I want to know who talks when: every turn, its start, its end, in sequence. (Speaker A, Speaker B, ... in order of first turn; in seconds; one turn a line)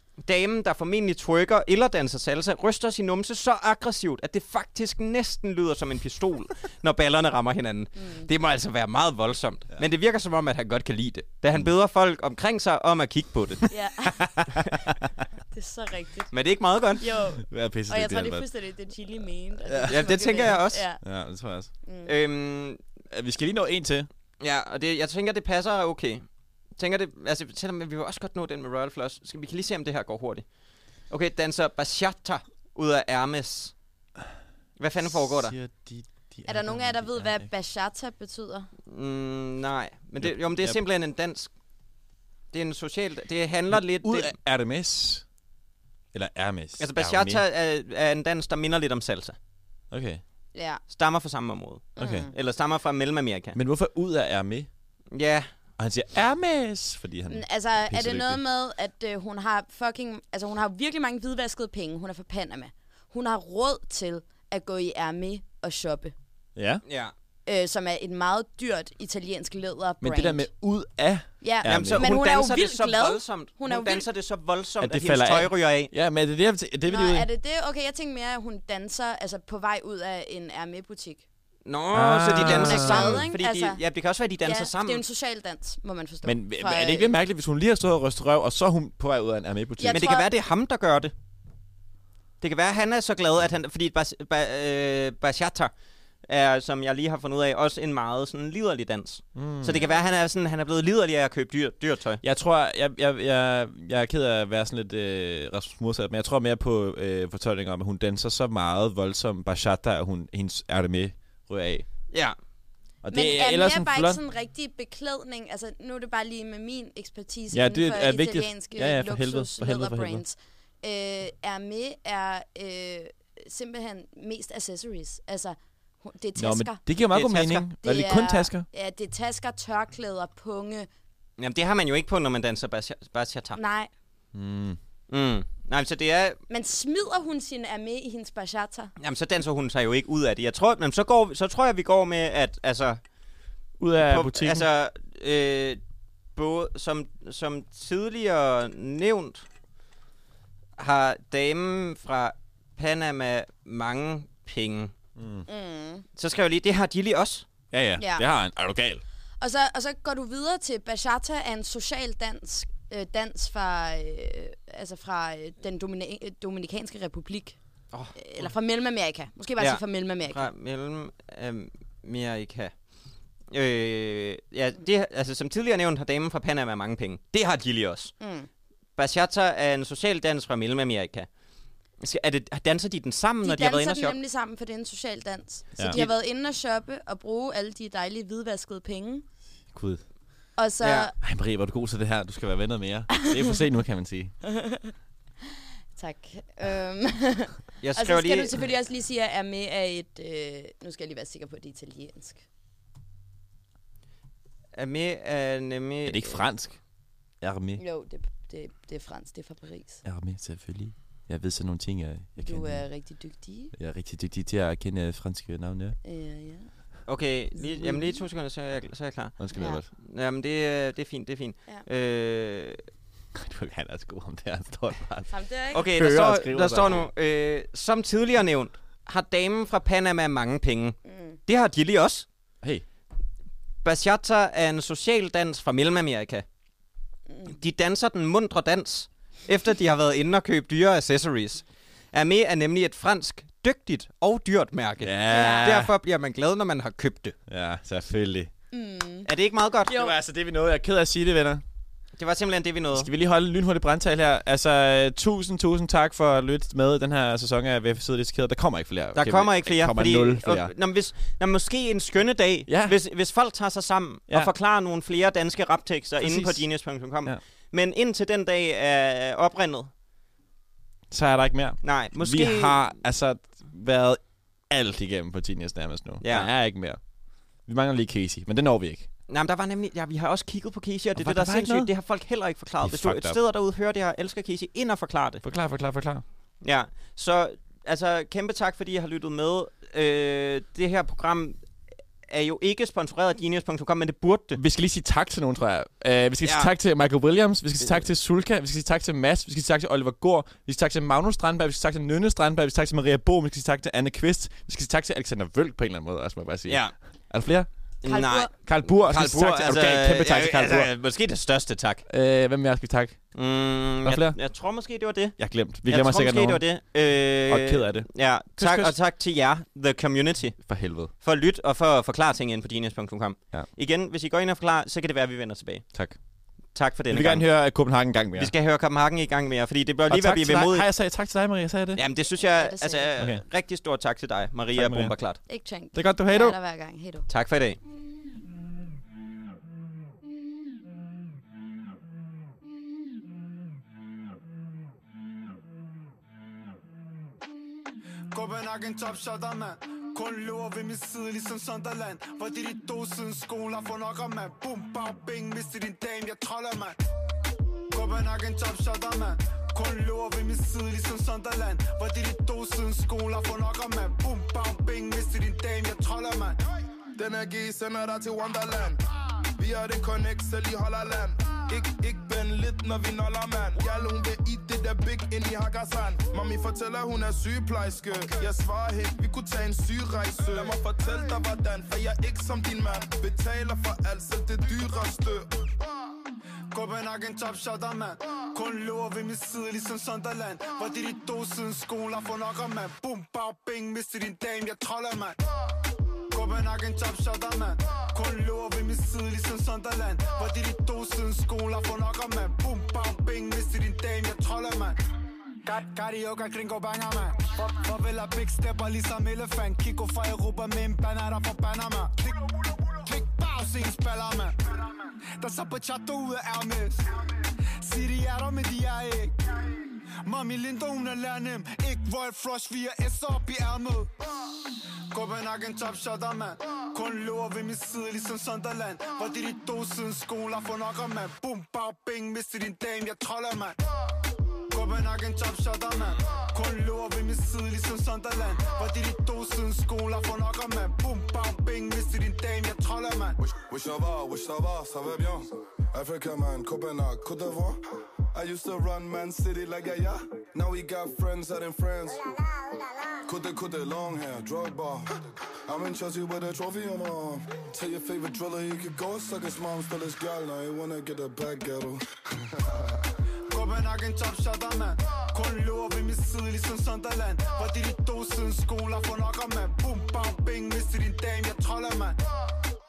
Speaker A: 0.2-13.7
Speaker B: 8.0-8.3
Speaker B: 13.7-14.5
Speaker C: 14.0-15.1
Speaker B: 15.5-16.3
Speaker A: 16.3-17.0
Speaker B: 17.0-21.0
Speaker C: 17.4-18.5
Speaker C: 19.7-21.7
Speaker A: 19.9-20.9
Speaker B: 21.9-22.1
Speaker A: 22.1-22.8
Speaker C: 23.1-24.1
Speaker A: 24.4-26.2
Speaker A: 26.8-30.4
Speaker A: 31.1-33.7
Speaker A: 34.8-35.6
Speaker C: 35.0-37.5
Speaker B: 36.5-38.7
Speaker A: 38.9-41.5
Speaker C: 40.2-40.8
Speaker A: 42.5-44.4
Speaker C: 43.7-45.2
Speaker C: 46.1-47.4
Speaker A: 46.8-49.4
Speaker C: 49.9-50.2
Speaker B: 50.5-50.8
Speaker A: 50.9-53.6
Speaker B: 52.0-52.3
Speaker C: 52.0-52.3
Speaker C: 53.5-54.7
Speaker A: 55.1-55.5
Speaker C: 55.8-58.4
Speaker B: 57.3-66.1
Speaker C: 66.6-66.8
Speaker A: 66.9-67.1
Speaker B: 67.5-70.5
Speaker C: 70.0-72.1
Speaker B: 71.4-74.0
Speaker A: 71.7-75.9
Speaker C: 74.8-77.3
Speaker B: 76.9-81.2
Speaker A: 81.7-85.0
Speaker C: 81.9-83.2
Speaker B: 82.3-83.8
Speaker B: 84.4-87.1
Speaker C: 86.2-90.1
Speaker B: 89.8-90.3
Speaker A: 89.9-91.1
Speaker A: 92.4-95.7
Speaker A: 96.2-102.2
Speaker C: 99.3-99.8
Speaker C: 102.2-111.9
Speaker C: 113.0-114.2
Speaker B: 113.1-126.8
Speaker C: 117.5-120.2
Speaker C: 126.4-128.7
Speaker A: 127.1-127.7
Speaker B: 127.8-130.9
Speaker A: 131.4-133.6
Speaker B: 133.6-133.9
Speaker C: 134.3-134.8
Speaker A: 135.1-136.4
Speaker B: 136.5-138.9
Speaker A: 139.0-143.0
Speaker C: 143.8-144.7
Speaker A: 144.0-145.8
Speaker A: 146.3-149.5
Speaker A: 150.8-154.9
Speaker C: 155.2-155.4
Speaker B: 155.5-156.1
Speaker A: 156.2-157.5
Speaker C: 157.7-159.0
Speaker B: 158.0-158.3
Speaker B: 159.4-167.6
Speaker B: 168.2-170.5
Speaker A: 169.6-172.7
Speaker A: 173.5-178.1
Speaker B: 178.2-178.5
Speaker A: 179.0-181.3
Speaker A: 182.0-184.2
Speaker B: 183.4-189.2
Speaker A: 185.9-186.2
Speaker C: 189.7-190.0
Speaker B: 190.6-191.1
Speaker A: 190.8-191.1
Speaker C: 191.2-194.3
Speaker B: 193.2-193.6
Speaker B: 194.4-194.9
Speaker B: 196.0-202.4
Speaker A: 197.8-198.6
Speaker A: 204.8-206.4
Speaker C: 206.1-206.8
Speaker C: 207.4-207.8
Speaker B: 207.8-210.0
Speaker C: 210.1-212.8
Speaker B: 212.4-213.7
Speaker C: 213.7-216.0
Speaker B: 216.0-216.7
Speaker A: 217.1-219.4
Speaker B: 217.6-218.2
Speaker C: 219.4-219.9
Speaker B: 219.6-219.8
Speaker A: 220.0-222.8
Speaker C: 223.3-227.1
Speaker B: 225.3-225.8
Speaker A: 225.7-232.3
Speaker B: 231.1-231.4
Speaker A: 233.8-236.4
Speaker A: 237.4-247.4
Speaker C: 245.0-245.9
Speaker B: 245.3-245.7
Speaker C: 247.5-248.5
Speaker B: 248.7-249.3
Speaker A: 249.2-249.9
Speaker B: 249.9-250.2
Speaker C: 249.9-251.6
Speaker A: 252.2-253.1
Speaker C: 252.9-260.7
Speaker A: 259.1-269.9
Speaker C: 262.7-263.0
Speaker C: 266.2-267.4
Speaker C: 271.1-277.0
Speaker A: 271.8-272.9
Speaker A: 276.2-276.5
Speaker C: 277.7-279.1
Speaker A: 279.3-285.4
Speaker C: 281.2-281.9
Speaker C: 282.8-283.4
Speaker C: 285.4-286.2
Speaker A: 286.6-291.6
Speaker A: 292.3-294.6
Speaker C: 294.6-307.7
Speaker A: 296.4-296.7
Speaker A: 306.7-306.9
Speaker A: 308.0-312.1
Speaker B: 308.1-308.5
Speaker C: 308.5-310.9
Speaker C: 312.1-313.2
Speaker A: 313.4-325.9
Speaker C: 314.0-314.4
Speaker C: 315.4-316.6
Speaker C: 317.5-318.9
Speaker C: 320.6-321.1
Speaker A: 326.8-327.5
Speaker C: 327.1-328.5
Speaker A: 328.4-330.9
Speaker C: 330.1-332.0
Speaker A: 332.0-335.4
Speaker B: 332.3-333.1
Speaker C: 333.2-333.4
Speaker C: 334.7-335.1
Speaker B: 335.5-337.3
Speaker C: 335.9-336.6
Speaker A: 337.3-337.8
Speaker D: 348.3-357.0
Speaker D: 357.9-366.6
Speaker E: 367.2-369.0
Speaker E: 369.6-385.5
Speaker D: 386.7-395.4
Speaker D: 396.3-405.0
Speaker D: 405.6-417.1
Speaker D: 417.8-419.4
Speaker D: 420.2-424.1
Speaker D: 425.1-433.8
Speaker D: 434.7-443.4
Speaker E: 443.4-447.8
Speaker E: 448.3-452.3
Speaker E: 453.2-455.1
Speaker E: 455.7-463.1
Speaker D: 463.5-472.2